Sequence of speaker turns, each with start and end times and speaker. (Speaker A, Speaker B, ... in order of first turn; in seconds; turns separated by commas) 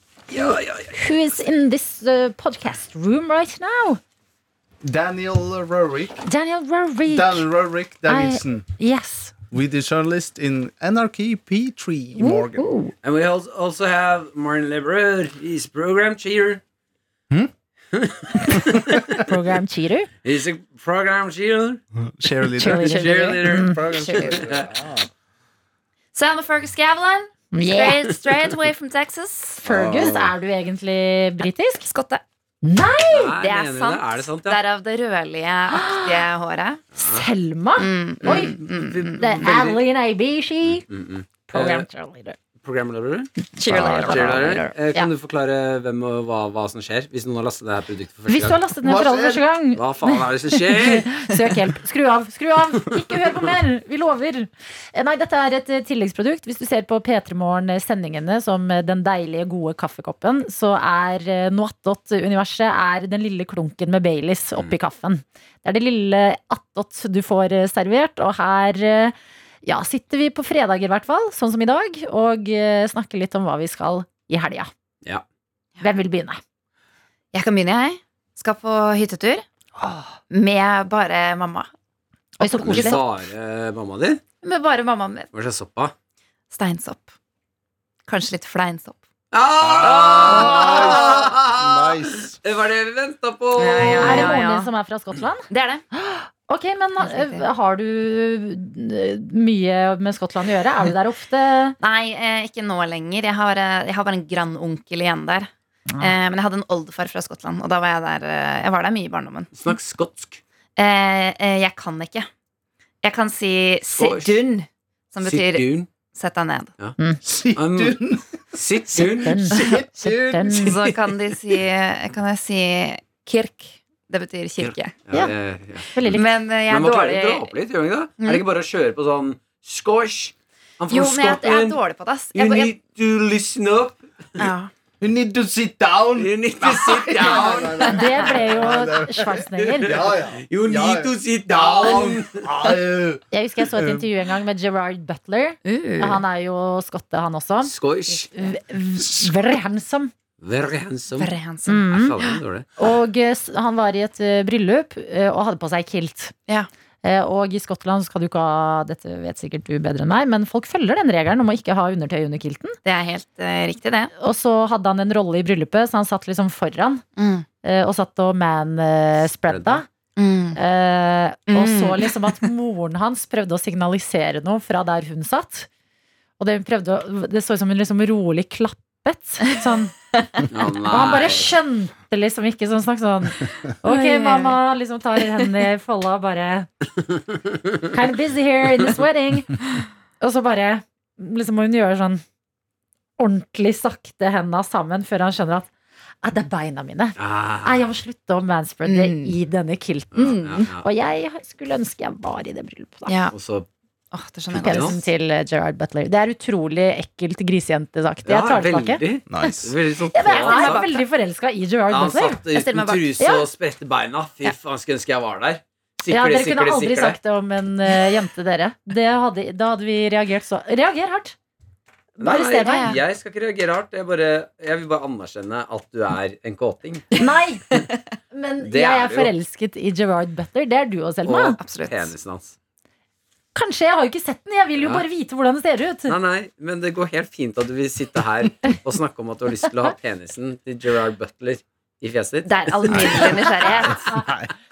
Speaker A: 0.3-0.9, Speaker B: 0.9-4.0, Speaker C: 4.8-6.2, Speaker B: 6.2-7.5, Speaker C: 7.1-8.7, Speaker B: 8.1-9.3, Speaker C: 9.5-12.7, Speaker B: 12.2-12.9, Speaker A: 13.0-16.6, Speaker A: 17.9-19.2, Speaker B: 19.1-20.1, Speaker A: 20.2-21.8, Speaker C: 21.9-25.1, Speaker A: 22.6-24.7, Speaker B: 22.6-23.9, Speaker D: 23.9-24.5, Speaker D: 26.1-29.6, Speaker B: 27.5-28.0, Speaker B: 29.6-31.9, Speaker A: 29.6-30.3, Speaker D: 31.9-32.2, Speaker B: 32.6-33.4, Speaker A: 33.1-34.6, Speaker D: 33.4-36.8, Speaker B: 35.7-36.3, Speaker A: 37.0-37.2, Speaker B: 37.0-38.6, Speaker D: 37.8-39.5, Speaker A: 38.2-39.8, Speaker B: 39.2-40.9, Speaker A: 40.7-41.9, Speaker B: 41.5-42.4, Speaker A: 42.6-48.6, Speaker D: 43.5-44.7, Speaker B: 44.0-45.1, Speaker B: 48.3-74.7, Speaker C: 48.6-49.5, Speaker A: 49.8-51.3, Speaker B: 75.8-76.4, Speaker D: 77.3-79.5, Speaker D: 80.3-81.7, Speaker B: 82.4-83.0, Speaker A: 82.4-84.2, Speaker D: 82.6-83.0, Speaker D: 84.4-85.3, Speaker A: 85.3-85.9, Speaker D: 86.5-87.1, Speaker D: 88.1-89.0, Speaker A: 89.3-94.4, Speaker C: 89.6-92.4, Speaker D: 90.0-91.0, Speaker D: 93.5-94.7, Speaker B: 94.0-101.8, Speaker D: 95.5-95.8, Speaker D: 97.0-97.5, Speaker D: 101.8-109.7, Speaker A: 109.5-110.4, Speaker D: 110.8-112.3, Speaker D: 113.0-116.7, Speaker A: 113.9-114.4, Speaker A: 115.2-115.9, Speaker C: 117.2-118.3, Speaker A: 117.6-118.0, Speaker A: 118.5-119.5, Speaker B: 119.0-120.8, Speaker C: 119.3-120.6, Speaker A: 120.5-120.7, Speaker D: 120.5-125.0, Speaker A: 124.6-134.5, Speaker B: 125.9-126.3, Speaker D: 126.1-127.5, Speaker D: 130.9-132.7, Speaker D: 134.4-134.7, Speaker C: 135.0-144.0, Speaker A: 136.2-142.6, Speaker B: 137.8-140.0, Speaker B: 143.3-150.1, Speaker D: 145.7-146.2, Speaker A: 147.6-148.6, Speaker A: 150.4-152.7, Speaker D: 151.2-151.9, Speaker B: 151.7-152.2, Speaker B: 152.8-156.3, Speaker B: 157.0-162.8, Speaker D: 162.8-164.1, Speaker B: 164.2-167.0, Speaker D: 167.2-167.4, Speaker B: 167.6-169.9, Speaker A: 169.2-169.8, Speaker D: 170.2-170.6, Speaker B: 170.6-175.7, Speaker D: 171.5-172.2, Speaker B: 176.4-179.9, Speaker A: 180.5-181.5, Speaker B: 180.8-186.7, Speaker D: 183.8-184.5, Speaker B: 187.8-189.7, Speaker B: 190.2-192.2, Speaker B: 193.2-195.7, Speaker B: 196.2-203.2, Speaker A: 197.2-197.8, Speaker D: 198.8-199.3, Speaker A: 200.2-200.8, Speaker D: 200.2-200.7, Speaker D: 203.1-203.3, Speaker A: 203.3-203.7, Speaker D: 204.1-205.0, Speaker A: 204.5-205.0, Speaker B: 204.5-209.5, Speaker A: 208.2-210.8, Speaker C: 209.3-209.7, Speaker B: 210.1-212.4, Speaker D: 210.2-211.0, Speaker A: 211.9-217.2, Speaker D: 212.5-213.1, Speaker B: 213.2-213.5, Speaker B: 216.1-221.4, Speaker B: 222.2-223.0, Speaker A: 222.2-227.2, Speaker D: 222.6-223.0, Speaker B: 227.2-231.6, Speaker A: 228.6-229.3, Speaker A: 231.2-232.6, Speaker D: 231.6-232.1, Speaker B: 233.6-236.2, Speaker A: 234.8-235.1, Speaker A: 236.1-243.9, Speaker D: 242.4-244.1, Speaker C: 244.2-244.5